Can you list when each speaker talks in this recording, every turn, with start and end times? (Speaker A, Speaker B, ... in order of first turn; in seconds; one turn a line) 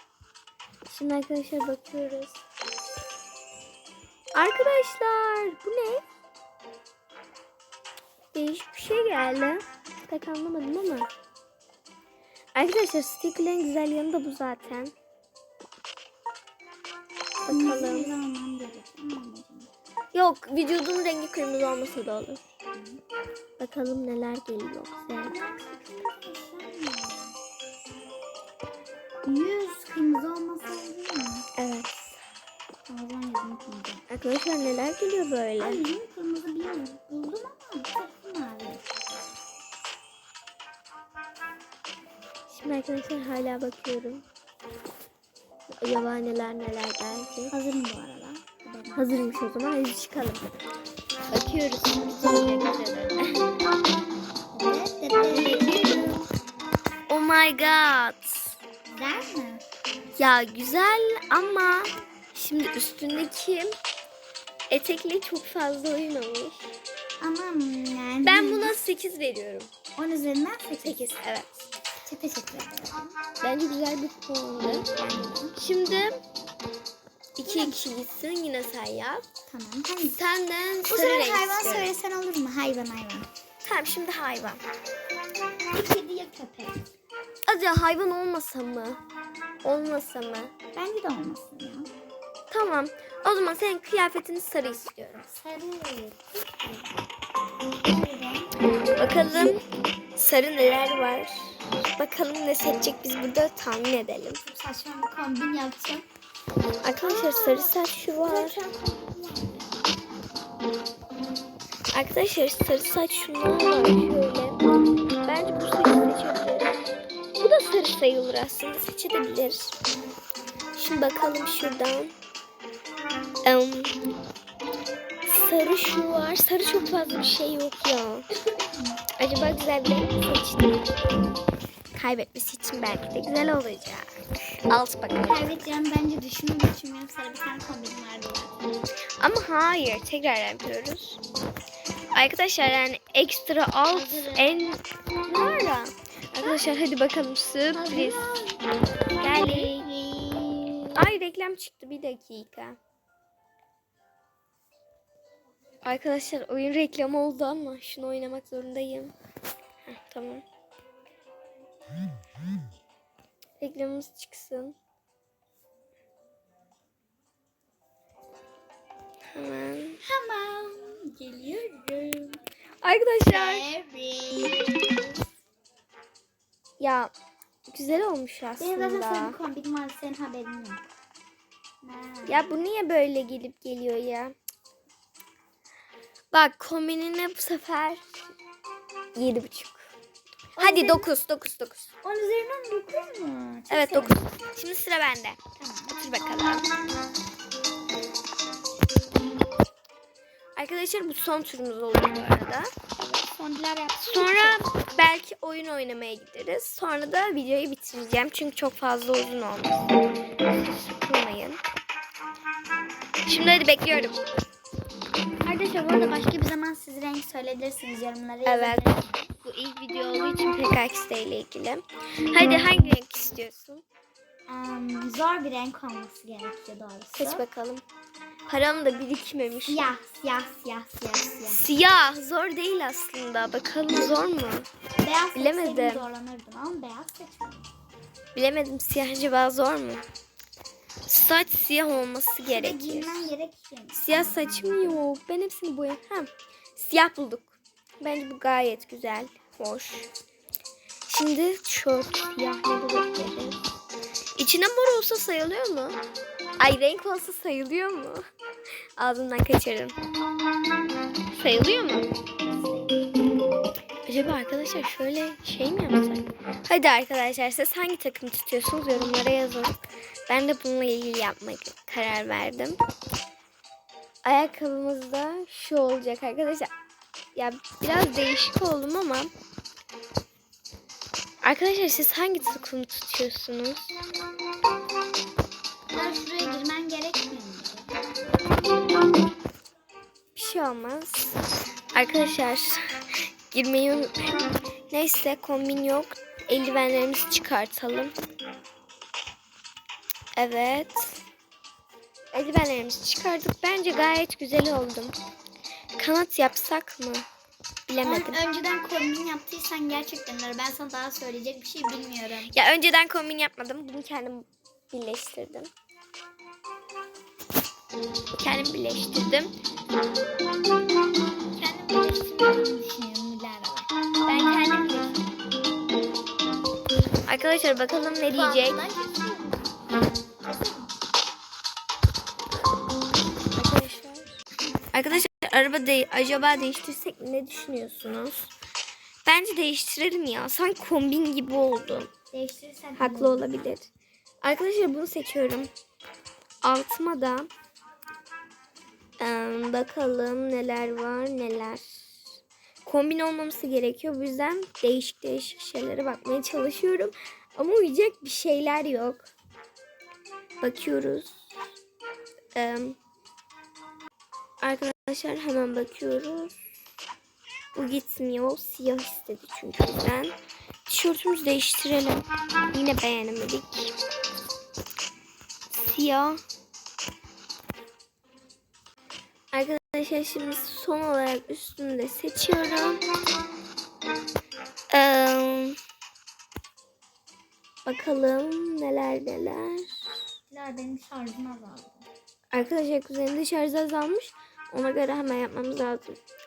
Speaker A: 0.9-2.4
Speaker A: 4.3-6.0
Speaker A: 8.3-11.1
Speaker A: 12.6-14.9
Speaker A: 17.4-18.1
Speaker B: 17.5-19.7
Speaker A: 20.1-22.4
Speaker B: 22.7-23.0
Speaker A: 23.6-25.4
Speaker B: 25.3-27.4
Speaker B: 29.2-31.5
Speaker A: 31.6-32.2
Speaker B: 32.9-34.0
Speaker A: 34.1-35.8
Speaker B: 35.6-38.9
Speaker A: 42.5-44.2
Speaker A: 45.7-47.5
Speaker B: 47.5-49.4
Speaker A: 49.0-50.5
Speaker A: 51.3-53.5
Speaker B: 54.5-56.0
Speaker A: 55.3-56.3
Speaker A: 57.1-58.6
Speaker B: 58.9-59.6
Speaker A: 60.1-63.8
Speaker A: 64.7-66.7
Speaker B: 67.2-68.8
Speaker A: 68.2-69.7
Speaker B: 70.0-71.0
Speaker A: 70.8-71.7
Speaker B: 72.0-73.2
Speaker A: 73.4-74.9
Speaker B: 74.9-75.5
Speaker A: 75.6-76.2
Speaker A: 77.4-79.3
Speaker B: 77.4-77.8
Speaker B: 79.5-80.2
Speaker A: 80.2-81.9
Speaker B: 80.9-83.3
Speaker A: 83.6-84.6
Speaker B: 85.7-86.8
Speaker A: 87.5-89.0
Speaker A: 89.6-90.5
Speaker B: 90.7-91.9
Speaker A: 92.5-95.3
Speaker B: 95.3-96.9
Speaker B: 97.8-98.6
Speaker A: 98.7-99.6
Speaker A: 100.2-104.4
Speaker B: 104.4-106.0
Speaker A: 106.8-108.6
Speaker B: 107.0-110.0
Speaker A: 111.9-114.6
Speaker A: 115.3-116.8
Speaker A: 117.4-119.8
Speaker A: 120.7-122.1
Speaker A: 123.4-124.0
Speaker A: 125.2-128.3
Speaker A: 129.2-130.8
Speaker A: 131.9-135.7
Speaker B: 135.2-138.8
Speaker A: 139.2-141.2
Speaker A: 142.1-148.2
Speaker B: 143.9-144.8
Speaker B: 147.7-148.6
Speaker B: 149.2-151.0
Speaker A: 149.2-149.9
Speaker A: 151.0-152.8
Speaker A: 155.8-159.1
Speaker A: 159.9-160.4
Speaker A: 163.6-164.8
Speaker A: 169.3-170.0
Speaker B: 170.0-172.4
Speaker A: 172.8-173.8
Speaker B: 173.3-174.9
Speaker A: 176.8-177.1
Speaker A: 177.7-179.4
Speaker B: 178.6-180.8
Speaker B: 181.8-182.6
Speaker A: 182.3-184.3
Speaker A: 186.3-188.2
Speaker A: 189.2-189.9
Speaker A: 190.6-191.9
Speaker B: 190.6-191.1
Speaker B: 192.0-194.2
Speaker A: 193.7-195.4
Speaker B: 195.6-196.0
Speaker A: 195.9-196.7
Speaker A: 200.6-202.8
Speaker B: 202.9-204.6
Speaker A: 204.0-209.9
Speaker A: 210.5-211.6
Speaker A: 213.3-214.2
Speaker B: 215.4-219.3
Speaker A: 218.4-223.8
Speaker B: 224.5-227.4
Speaker A: 227.2-227.8
Speaker A: 228.4-229.9
Speaker B: 229.7-231.7
Speaker A: 231.5-234.7
Speaker B: 235.0-237.7
Speaker A: 235.3-236.1
Speaker A: 238.3-240.1
Speaker A: 241.1-243.3
Speaker B: 242.4-245.0
Speaker A: 243.9-250.1
Speaker A: 251.1-253.6
Speaker A: 254.4-256.0
Speaker A: 256.6-258.2
Speaker A: 259.0-260.0
Speaker A: 261.3-262.1
Speaker B: 262.5-263.1
Speaker A: 264.1-269.8
Speaker A: 270.3-272.8
Speaker A: 274.2-276.7
Speaker A: 277.3-279.3
Speaker A: 281.4-284.0
Speaker B: 285.9-287.9
Speaker A: 290.4-291.4
Speaker A: 291.9-298.1
Speaker A: 300.4-301.2
Speaker A: 302.3-305.1
Speaker A: 306.0-307.3
Speaker A: 307.9-308.4
Speaker B: 308.0-312.5
Speaker A: 312.5-315.7
Speaker A: 318.4-319.5
Speaker B: 321.6-324.5
Speaker A: 324.3-325.2
Speaker A: 327.3-328.8
Speaker B: 328.3-329.7
Speaker B: 330.4-330.9
Speaker A: 333.5-334.4
Speaker A: 334.9-338.5
Speaker A: 339.2-342.1
Speaker B: 342.3-343.6
Speaker A: 342.9-343.9
Speaker A: 344.4-345.7
Speaker A: 346.6-347.5
Speaker A: 349.2-352.2
Speaker A: 352.8-359.3
Speaker A: 360.6-361.5
Speaker A: 362.6-363.0
Speaker A: 364.6-366.6
Speaker A: 367.8-373.9
Speaker A: 375.7-376.4
Speaker A: 379.5-383.0
Speaker A: 384.9-385.8
Speaker A: 387.8-390.0
Speaker B: 390.5-392.1
Speaker A: 392.5-396.2